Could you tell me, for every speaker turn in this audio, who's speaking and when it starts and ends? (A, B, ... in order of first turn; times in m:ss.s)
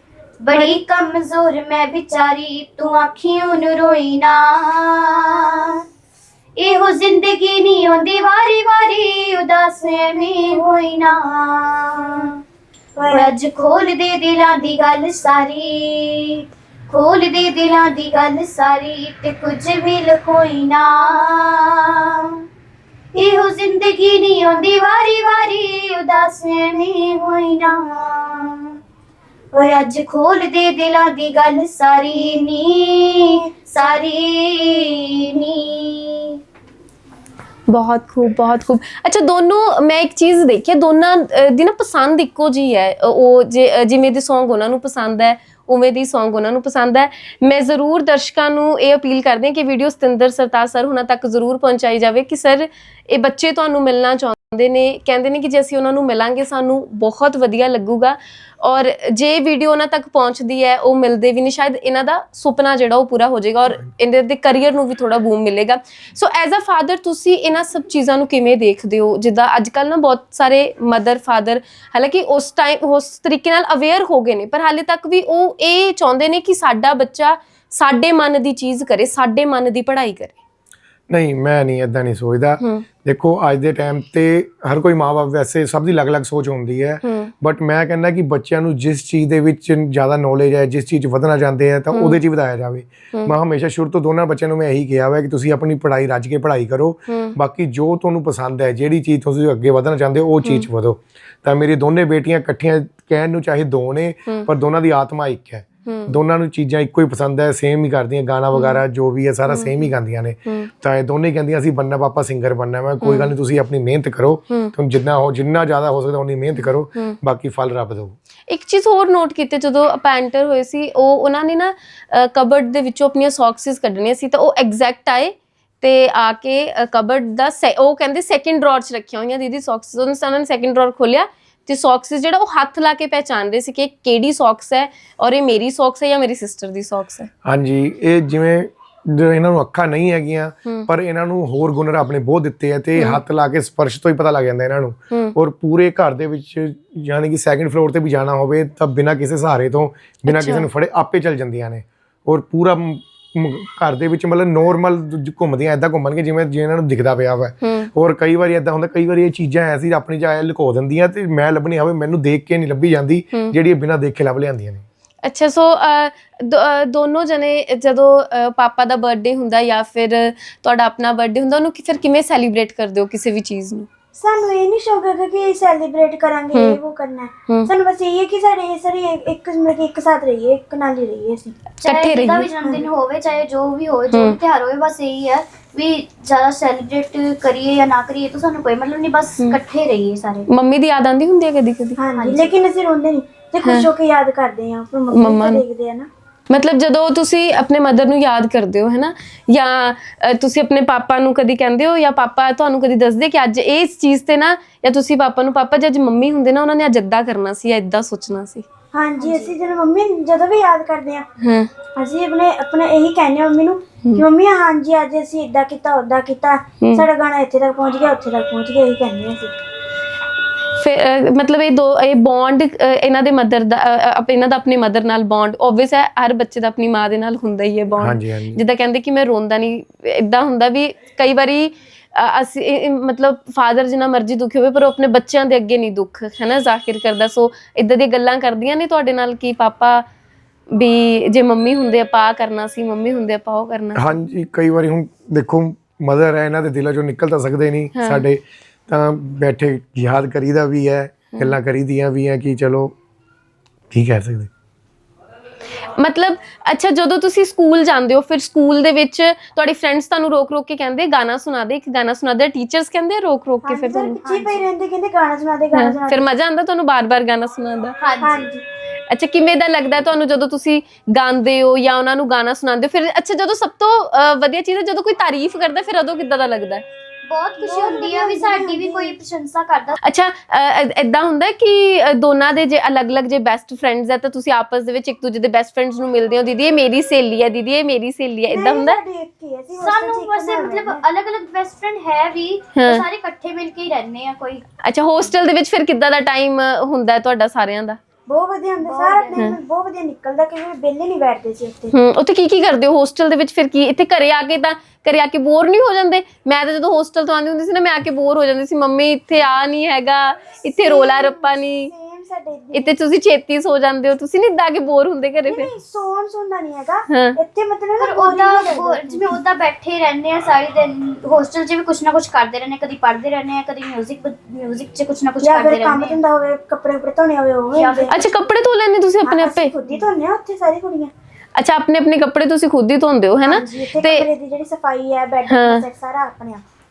0:00.4-0:05.8 A
0:06.6-0:12.3 A
0:13.0-0:13.3 B
0:13.1-0:22.3 A
0:23.1-0:28.7 A
0:29.5-0:36.4 A
0:37.7-1:20.3 C
1:21.1-1:58.2 D
1:27.0-1:27.3 C
1:31.9-1:32.2 C
1:37.1-1:37.3 C
1:45.8-1:46.2 C
1:48.5-1:48.8 C
1:49.5-1:49.9 C
1:53.0-1:53.3 C
1:56.6-1:57.2 C
1:58.5-2:17.3 C
2:17.4-2:44.8 D
2:23.0-2:23.2 C
2:30.3-2:30.7 C
2:37.6-2:37.9 C
2:45.2-2:53.9 C
2:54.2-3:01.5 B
2:56.5-2:56.8 C
3:01.8-3:10.5 A
3:01.8-3:02.5 C
3:04.1-3:04.4 C
3:10.5-3:12.0 C
3:12.0-3:16.1 B
3:12.1-3:12.5 A
3:13.6-3:13.9 C
3:15.1-3:15.6 C
3:16.5-3:28.7 C
3:28.9-3:31.3 B
3:29.2-3:29.5 A
3:31.4-3:31.7 C
3:32.0-3:39.6 B
3:36.8-3:37.0 C
3:40.8-4:00.0 C
3:48.0-3:48.6 D
4:00.7-4:04.2 C
4:03.9-4:12.9 D
4:07.9-4:08.2 C
4:13.9-4:14.5 D
4:15.9-4:24.2 C
4:23.6-4:26.2 B
4:24.2-4:24.6 A
4:25.7-4:28.0 C
4:28.0-4:28.5 A
4:28.2-4:28.6 B
4:29.1-4:36.8 C
4:37.2-4:40.0 A
4:37.6-4:39.2 B
4:40.0-4:49.0 C
4:48.5-4:51.0 B
4:49.8-4:54.6 A
4:52.8-4:53.0 C
4:54.8-4:58.0 C
4:58.3-5:01.9 B
4:58.8-4:59.5 A
5:01.9-5:11.9 C
5:10.8-5:13.0 B
5:12.7-5:15.7 C
5:15.4-5:19.3 B
5:17.1-5:17.4 C
5:18.0-5:26.2 A
5:25.4-5:28.2 B
5:27.7-5:28.3 A
5:28.1-5:29.7 C
5:29.2-5:31.1 B
5:31.6-5:34.3 C
5:33.4-5:36.6 B
5:35.5-5:35.8 C